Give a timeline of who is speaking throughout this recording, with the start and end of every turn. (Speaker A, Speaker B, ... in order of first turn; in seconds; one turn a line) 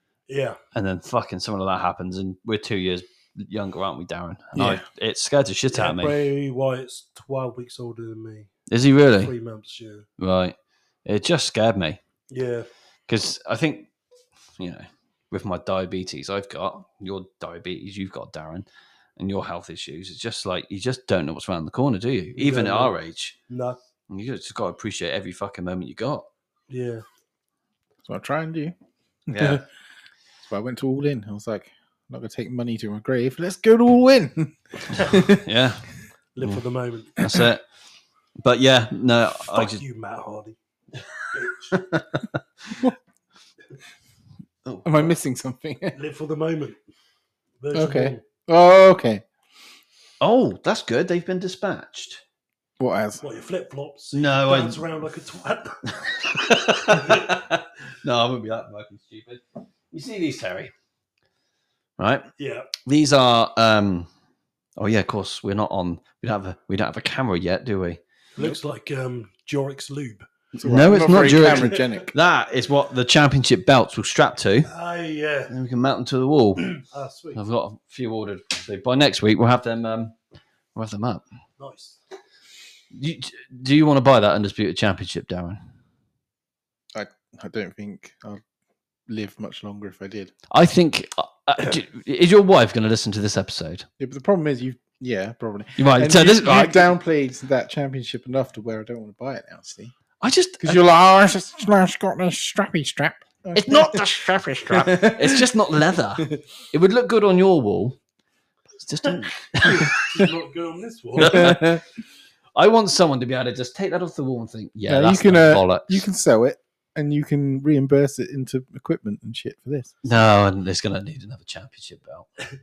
Speaker A: 0.3-0.6
Speaker B: 0.7-6.2
Speaker C: 4.5-4.8
Speaker A: 5.7-8.5
Speaker B: 8.7-9.3
Speaker A: 9.2-10.1
Speaker B: 10.2-12.0
Speaker A: 12.3-12.7
Speaker B: 13.1-13.9
Speaker B: 14.6-18.6
Speaker B: 19.2-23.3
Speaker A: 22.4-22.9
Speaker A: 23.5-23.8
Speaker B: 24.1-26.3
Speaker A: 26.7-27.0
Speaker C: 28.0-28.7
Speaker C: 29.3-29.6
Speaker C: 30.4-35.4
Speaker B: 35.0-36.6
Speaker A: 36.4-37.2
Speaker B: 37.2-37.6
Speaker B: 38.4-39.8
Speaker A: 39.3-40.5
Speaker A: 41.2-41.9
Speaker B: 41.7-42.4
Speaker B: 44.6-45.1
Speaker C: 44.8-46.0
Speaker A: 45.9-46.8
Speaker A: 47.6-48.2
Speaker C: 47.7-49.2
Speaker B: 50.2-52.2
Speaker C: 52.8-53.2
Speaker A: 53.2-55.9
Speaker B: 54.1-54.8
Speaker B: 56.0-60.7
Speaker A: 56.9-57.4
Speaker B: 62.0-62.3
Speaker A: 62.4-62.7
Speaker B: 62.8-64.1
Speaker B: 64.8-68.0
Speaker A: 68.3-70.3
Speaker B: 70.5-74.7
Speaker C: 70.6-72.1
Speaker A: 71.1-72.0
Speaker A: 74.7-75.5
Speaker B: 75.5-76.8
Speaker A: 76.8-77.4
Speaker B: 77.3-80.2
Speaker B: 80.7-81.2
Speaker A: 81.6-82.0
Speaker B: 82.9-85.6
Speaker C: 86.9-88.4
Speaker C: 89.1-90.3
Speaker B: 90.5-93.8
Speaker C: 94.0-99.9
Speaker B: 95.8-96.9
Speaker B: 100.2-100.8
Speaker C: 100.6-105.5
Speaker B: 103.5-108.0
Speaker B: 108.8-110.0
Speaker A: 109.6-111.6
Speaker C: 111.2-111.8
Speaker B: 111.2-111.8
Speaker B: 112.5-116.0
Speaker C: 114.9-120.0
Speaker B: 120.0-122.3